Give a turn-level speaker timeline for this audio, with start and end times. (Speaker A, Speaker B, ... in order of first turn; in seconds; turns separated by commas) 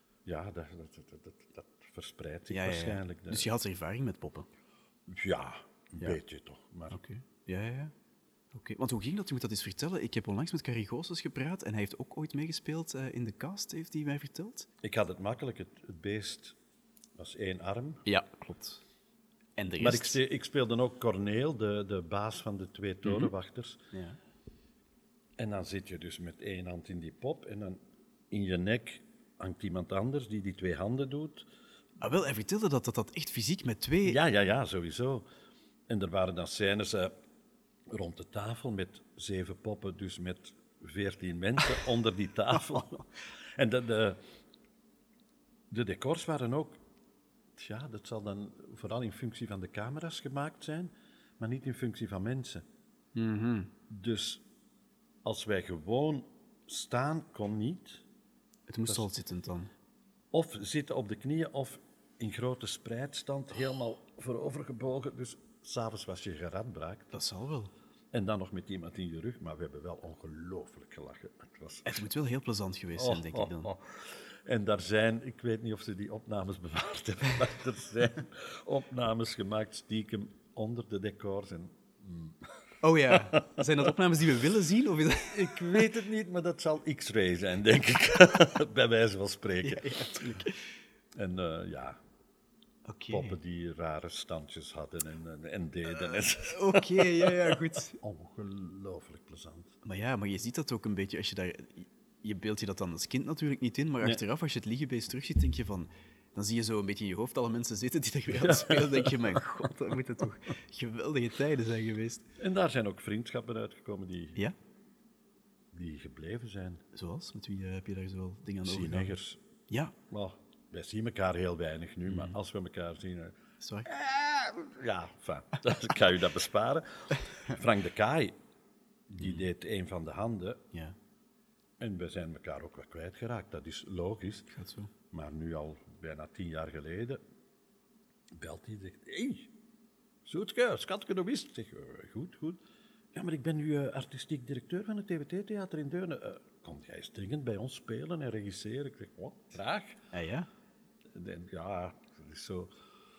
Speaker A: 0.2-3.5, Speaker B: 2.5-4.5, Speaker A: 5.1-7.0, Speaker B: 6.9-7.9, Speaker B: 8.5-14.7, Speaker A: 14.8-16.6, Speaker A: 17.1-18.0, Speaker B: 18.1-18.8, Speaker B: 19.6-20.2, Speaker A: 19.8-23.8, Speaker B: 23.0-23.3, Speaker B: 23.9-24.2, Speaker A: 25.4-27.8, Speaker A: 28.3-31.5, Speaker B: 32.0-34.2, Speaker A: 34.0-35.3, Speaker A: 35.9-37.1, Speaker A: 37.9-44.2, Speaker B: 42.8-43.0, Speaker A: 45.7-46.8, Speaker A: 47.5-52.6, Speaker B: 53.1-53.7, Speaker A: 53.9-54.4, Speaker A: 55.2-58.0, Speaker B: 58.7-59.7, Speaker A: 60.3-67.1, Speaker B: 67.1-67.7, Speaker A: 68.1-72.1, Speaker B: 71.8-73.7, Speaker A: 72.9-83.9, Speaker B: 82.8-85.8, Speaker A: 85.3-90.4, Speaker B: 89.6-90.6, Speaker A: 91.1-92.0, Speaker B: 92.8-93.4, Speaker A: 93.1-99.8, Speaker B: 96.1-98.0, Speaker B: 99.8-112.3, Speaker A: 108.3-109.4, Speaker A: 112.4-114.4, Speaker A: 115.7-116.8, Speaker B: 116.9-119.1, Speaker A: 118.6-119.4, Speaker B: 119.7-120.0, Speaker A: 120.1-128.3, Speaker B: 122.0-122.4, Speaker B: 123.6-123.9, Speaker A: 129.1-130.6, Speaker B: 129.2-129.5, Speaker A: 131.8-134.5, Speaker B: 134.5-134.9, Speaker A: 135.1-137.2, Speaker A: 138.3-139.5, Speaker A: 140.2-142.6, Speaker A: 143.1-150.0, Speaker B: 150.1-150.5, Speaker A: 151.1-152.7